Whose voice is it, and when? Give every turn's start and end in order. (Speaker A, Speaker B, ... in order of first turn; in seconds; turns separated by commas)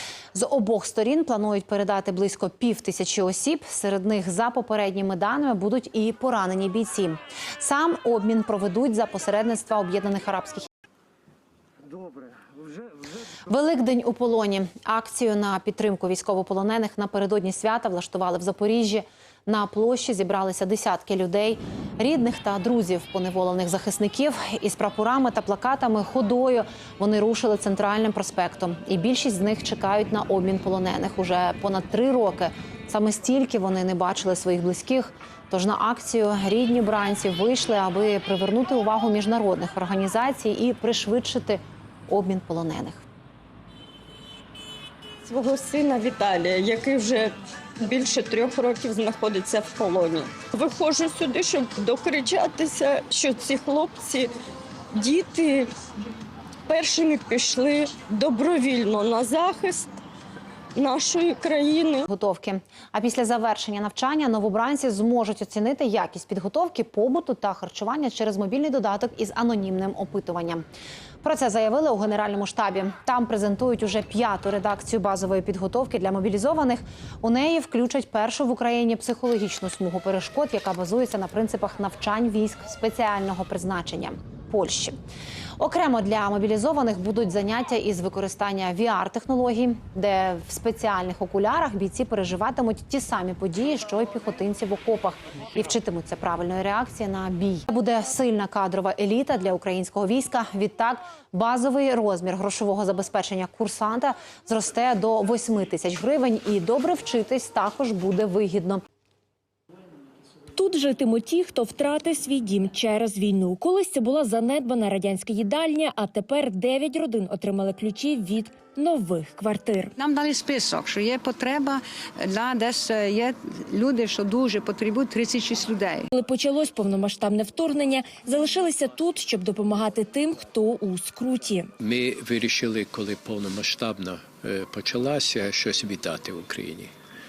Speaker A: 0.3-10.7, Speaker A: 13.5-43.0, Speaker B: 45.2-54.3, Speaker B: 54.9-55.7, Speaker B: 56.7-59.9, Speaker B: 60.8-62.1, Speaker A: 62.1-70.6, Speaker A: 71.2-85.0, Speaker A: 85.6-108.8, Speaker C: 110.5-119.9, Speaker D: 120.0-126.1, Speaker C: 126.1-131.7, Speaker E: 131.8-136.9